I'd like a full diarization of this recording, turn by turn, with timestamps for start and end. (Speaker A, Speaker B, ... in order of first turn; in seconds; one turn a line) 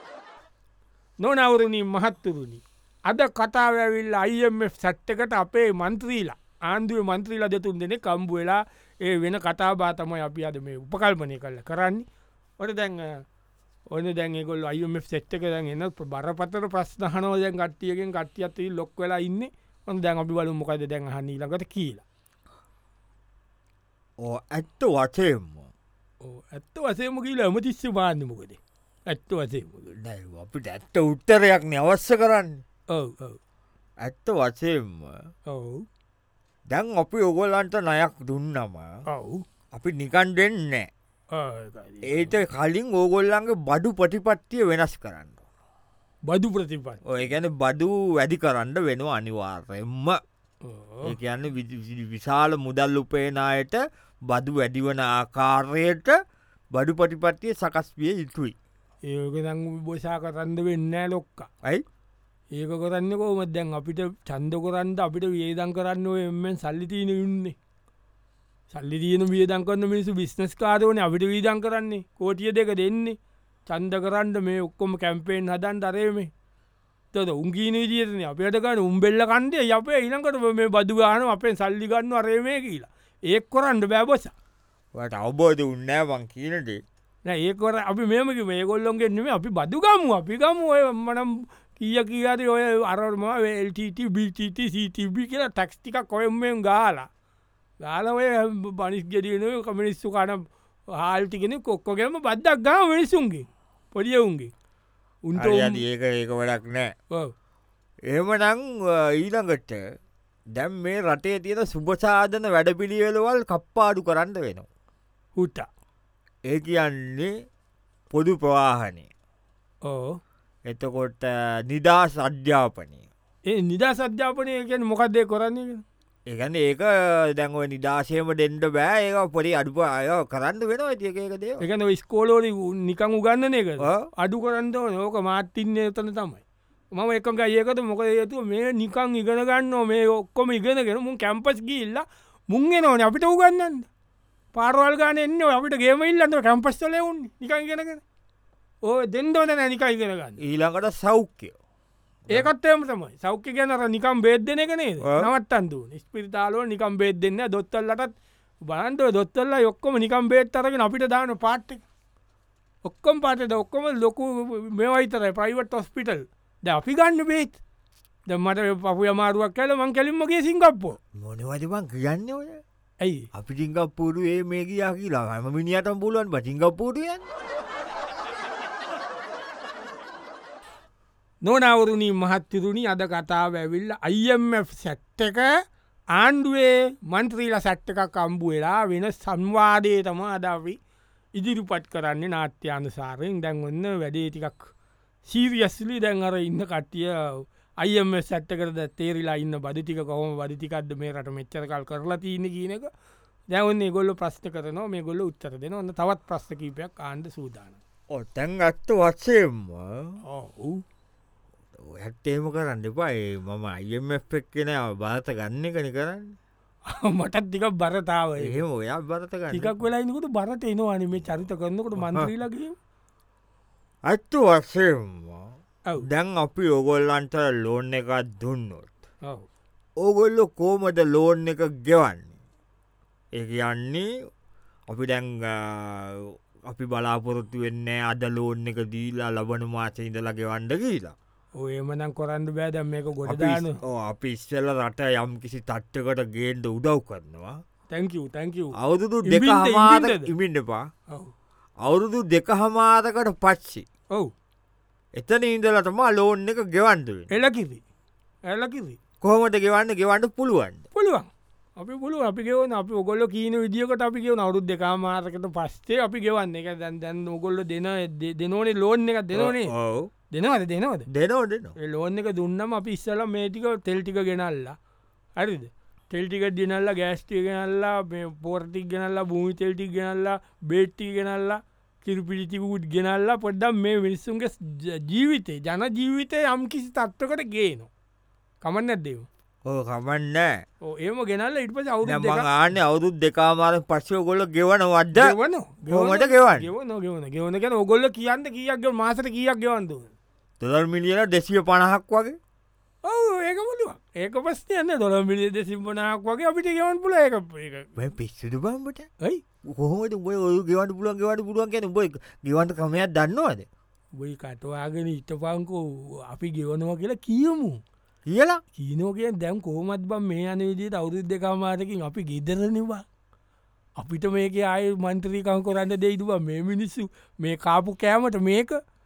Speaker A: 1.2-12.1
Speaker A: 12.6-13.2
Speaker A: 13.9-22.0
Speaker B: 24.2-25.7
Speaker A: 26.2-28.6
Speaker A: 29.1-29.8
Speaker B: 29.9-32.6
Speaker A: 32.9-33.4
Speaker B: 34.0-35.3
Speaker A: 35.5-35.9
Speaker B: 36.7-38.9
Speaker A: 39.1-39.4
Speaker B: 39.7-40.9
Speaker A: 41.3-42.3
Speaker B: 42.1-45.4
Speaker A: 46.3-47.0
Speaker B: 47.1-50.2
Speaker A: 50.6-51.2
Speaker B: 51.1-56.2
Speaker B: 56.7-58.5
Speaker A: 59.0-61.5
Speaker A: 62.5-67.6
Speaker A: 68.7-76.3
Speaker A: 77.1-84.3
Speaker B: 84.9-86.8
Speaker A: 87.2-97.1
Speaker A: 97.8-104.5
Speaker A: 105.2-105.8
Speaker B: 105.4-106.9
Speaker B: 108.1-109.8
Speaker B: 110.5-114.7
Speaker A: 115.4-115.7
Speaker B: 116.5-117.3
Speaker B: 118.1-119.1
Speaker A: 119.8-120.2
Speaker B: 120.7-123.1
Speaker A: 123.5-125.8
Speaker B: 126.3-131.6
Speaker A: 131.6-136.4
Speaker B: 133.8-134.1
Speaker A: 136.9-143.9
Speaker A: 144.5-148.0
Speaker A: 148.8-150.4
Speaker B: 150.4-151.6
Speaker A: 152.3-158.1
Speaker B: 155.0-155.3
Speaker A: 158.7-161.8
Speaker A: 162.8-167.6
Speaker A: 168.3-171.0
Speaker B: 171.2-172.6
Speaker B: 173.3-177.3
Speaker A: 181.4-185.5
Speaker A: 186.1-190.8
Speaker A: 191.3-194.7
Speaker A: 195.3-202.9
Speaker A: 203.5-207.8
Speaker B: 208.1-210.2
Speaker A: 210.2-210.8
Speaker B: 211.8-216.4
Speaker A: 216.9-218.6
Speaker B: 218.4-219.8
Speaker A: 219.5-222.7
Speaker B: 222.0-222.3
Speaker B: 224.1-228.9
Speaker B: 230.0-232.3
Speaker B: 233.3-234.1
Speaker B: 234.9-241.2
Speaker A: 241.6-243.8
Speaker B: 243.2-247.6
Speaker A: 247.9-250.3
Speaker B: 248.8-250.9
Speaker B: 251.8-253.8
Speaker B: 255.2-257.3
Speaker A: 257.3-257.8
Speaker A: 258.5-259.0
Speaker B: 259.2-260.9
Speaker A: 260.9-269.7
Speaker B: 269.3-270.1
Speaker A: 270.3-271.1
Speaker B: 271.1-271.8
Speaker A: 271.8-274.8
Speaker A: 275.4-287.9
Speaker A: 288.6-289.3
Speaker B: 289.7-290.5
Speaker A: 290.8-292.5
Speaker B: 292.1-295.4
Speaker A: 295.1-300.1
Speaker B: 295.9-296.7
Speaker B: 300.6-302.4
Speaker A: 303.0-307.9
Speaker B: 308.0-309.1
Speaker B: 309.7-313.7
Speaker A: 314.2-317.8
Speaker B: 318.3-318.6
Speaker A: 318.8-323.0
Speaker A: 324.0-328.8